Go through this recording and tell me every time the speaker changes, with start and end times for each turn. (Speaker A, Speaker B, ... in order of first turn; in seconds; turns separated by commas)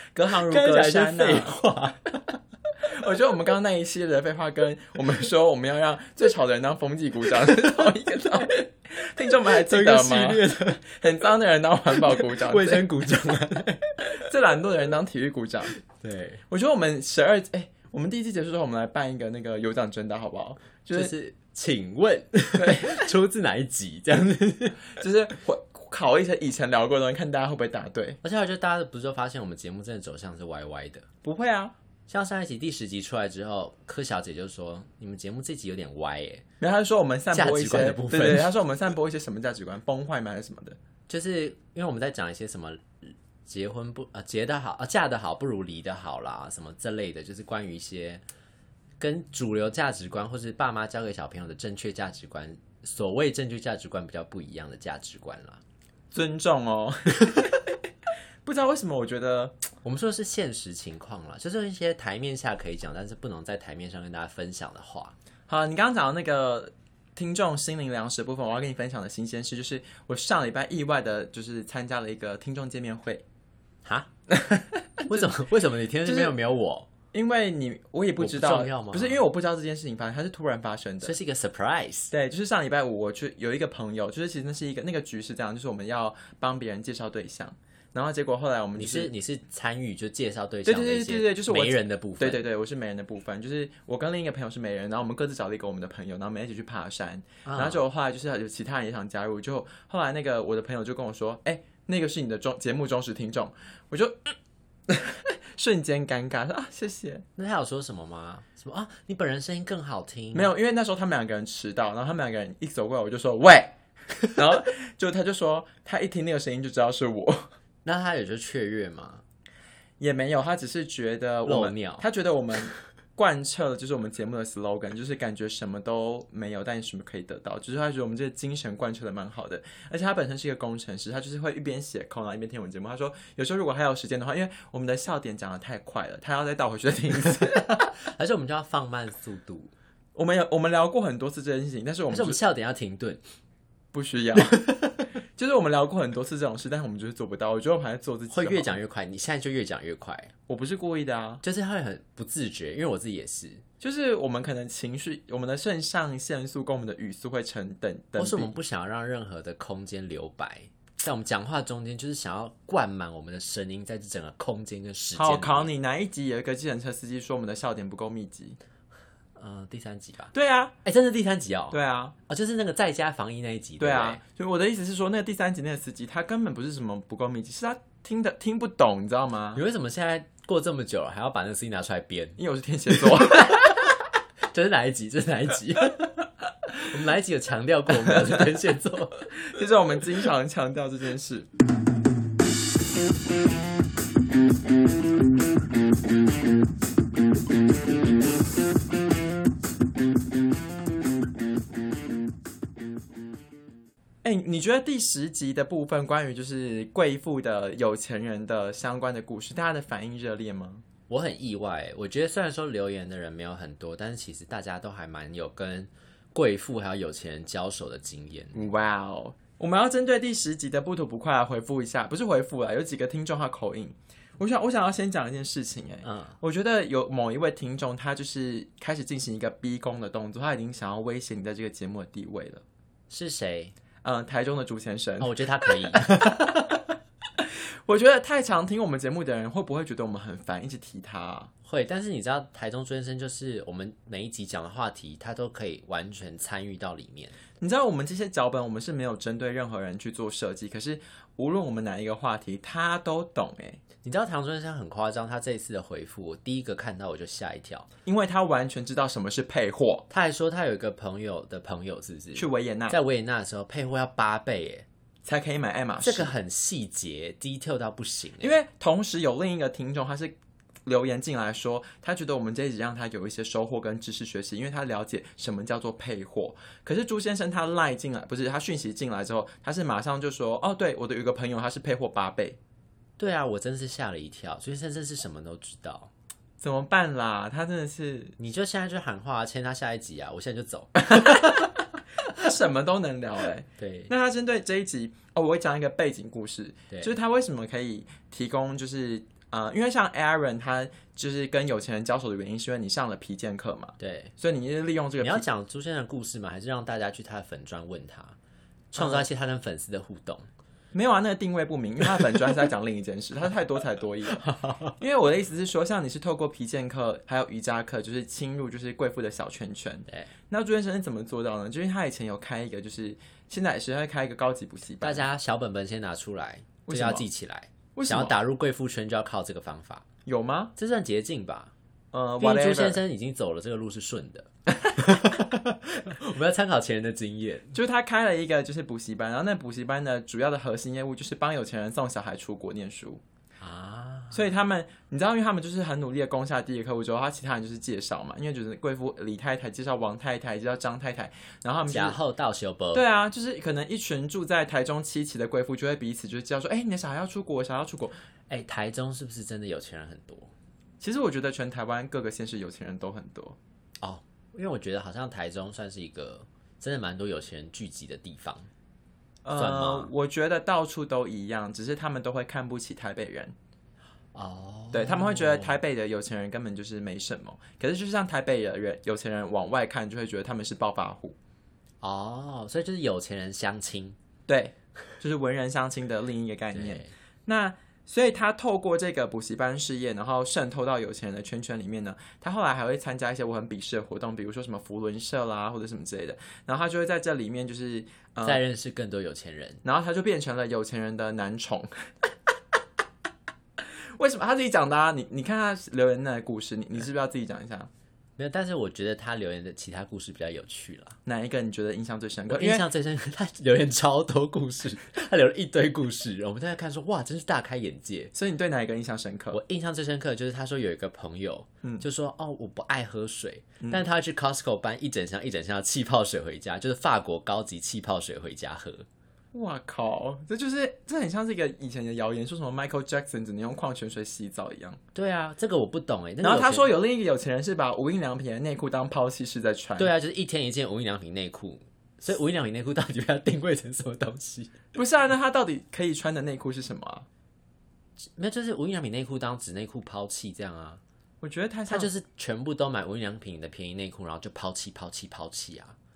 Speaker A: 0.1-1.6, Speaker B: 0.5-2.4, Speaker A: 2.9-12.9, Speaker B: 9.5-11.0, Speaker B: 11.9-14.1, Speaker A: 14.2-15.7, Speaker B: 15.9-16.4, Speaker A: 16.5-21.1, Speaker B: 20.9-24.9, Speaker A: 22.5-23.1, Speaker A: 25.0-28.2, Speaker B: 28.2-31.1, Speaker A: 31.2-31.7, Speaker B: 32.1-36.5, Speaker A: 36.6-40.8, Speaker B: 37.3-38.5, Speaker B: 41.1-48.2, Speaker B: 49.0-55.6, Speaker A: 56.1-57.6, Speaker A: 58.5-59.6, Speaker B: 59.8-65.1, Speaker A: 65.5-73.2, Speaker B: 73.8-74.1, Speaker A: 74.3-75.3, Speaker B: 75.1-76.9, Speaker A: 76.0-76.4, Speaker A: 77.1-81.2, Speaker B: 78.2-79.2, Speaker B: 81.0-82.1, Speaker A: 82.1-89.1, Speaker B: 88.8-92.4, Speaker A: 90.7-104.3, Speaker B: 97.5-97.8, Speaker A: 104.9-107.2, Speaker B: 107.4-110.5, Speaker A: 110.3-113.8, Speaker A: 114.3-117.5, Speaker B: 117.8-119.2, Speaker A: 120.0-137.8, Speaker B: 121.4-122.0, Speaker B: 137.5-139.7, Speaker A: 140.2-142.4, Speaker B: 142.1-143.2, Speaker A: 143.9-144.6, Speaker A: 145.4-148.8, Speaker B: 148.3-150.3, Speaker A: 150.5-151.4, Speaker B: 151.4-153.6, Speaker A: 153.8-158.5, Speaker B: 158.2-165.7, Speaker A: 165.2-168.6, Speaker B: 169.4-170.3, Speaker A: 170.3-170.7, Speaker B: 170.8-174.2, Speaker A: 171.7-172.1, Speaker A: 173.8-179.6, Speaker B: 179.6-182.4, Speaker A: 182.4-183.8, Speaker B: 183.4-183.8, Speaker B: 184.5-186.2, Speaker B: 186.8-189.3, Speaker A: 189.4-191.5, Speaker A: 204.2-210.8, Speaker B: 211.1-218.7, Speaker A: 218.5-232.6, Speaker B: 226.0-226.4, Speaker B: 233.1-233.7, Speaker A: 234.0-236.8, Speaker B: 235.2-236.4, Speaker A: 237.9-241.5, Speaker B: 241.6-247.4, Speaker A: 247.6-253.8, Speaker B: 254.0-257.9, Speaker A: 258.1-260.1, Speaker B: 260.1-264.9, Speaker A: 262.4-263.0, Speaker A: 265.2-266.3, Speaker B: 266.0-268.6, Speaker A: 268.4-282.6, Speaker B: 283.2-286.1, Speaker A: 286.6-288.4, Speaker B: 288.4-291.2, Speaker A: 291.1-291.7, Speaker A: 292.3-305.4, Speaker B: 293.8-294.1, Speaker B: 304.0-304.3, Speaker B: 305.2-308.4, Speaker B: 308.9-310.5, Speaker A: 309.0-309.2, Speaker A: 310.9-314.4, Speaker B: 314.4-314.9, Speaker A: 315.0-325.2, Speaker B: 325.0-330.1, Speaker A: 326.9-327.3, Speaker A: 327.9-328.4, Speaker A: 330.2-330.7, Speaker B: 330.8-331.7, Speaker A: 332.1-333.0, Speaker B: 332.4-337.8, Speaker A: 337.7-343.2, Speaker B: 343.6-344.4, Speaker A: 344.3-352.2, Speaker B: 351.9-353.1, Speaker A: 352.9-358.1, Speaker B: 358.5-360.5, Speaker A: 361.0-363.6, Speaker B: 364.0-368.7, Speaker A: 369.4-373.5, Speaker B: 369.5-370.1, Speaker B: 374.3-375.8, Speaker A: 374.9-381.4, Speaker B: 382.0-384.2, Speaker A: 384.5-398.6, Speaker B: 386.7-387.1, Speaker B: 398.4-399.8, Speaker A: 399.8-402.3, Speaker A: 403.8-407.9, Speaker B: 408.4-411.2, Speaker A: 411.2-412.9, Speaker B: 412.5-418.3, Speaker A: 418.3-419.6, Speaker B: 419.5-429.1, Speaker A: 429.5-435.0, Speaker B: 435.1-436.9, Speaker A: 436.4-440.1, Speaker B: 440.0-444.7, Speaker A: 444.9-447.3, Speaker B: 448.4-451.0, Speaker A: 451.4-452.1, Speaker B: 451.9-455.9